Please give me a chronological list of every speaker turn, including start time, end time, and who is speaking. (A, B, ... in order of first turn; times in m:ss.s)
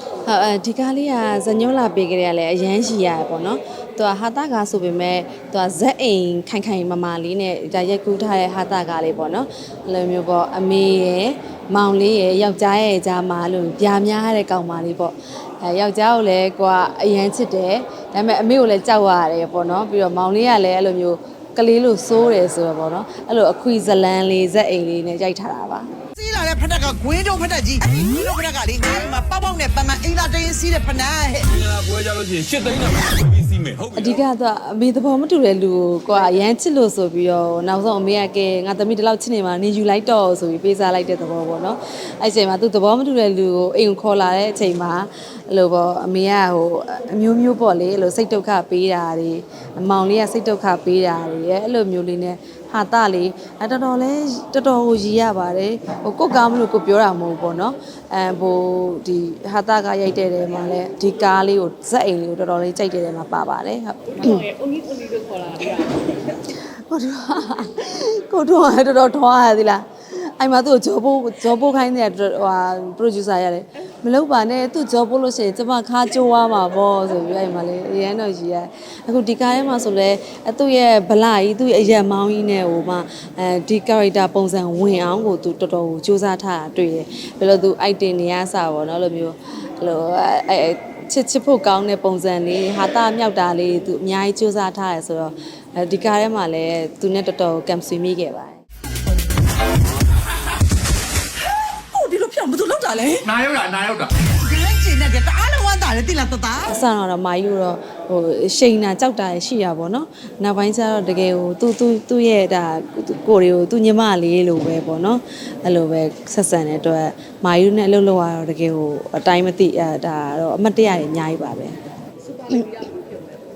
0:00.2-0:25.9 A
0:26.2-0:31.6 B
0:31.6-0:34.1 C
0:34.0-1:04.5 A
1:04.3-1:06.1 D
1:06.4-1:38.6 A
1:41.9-1:43.3 B
1:43.3-1:44.1 C
1:44.1-1:46.7 B
1:46.7-2:01.8 A
2:02.2-2:03.4 D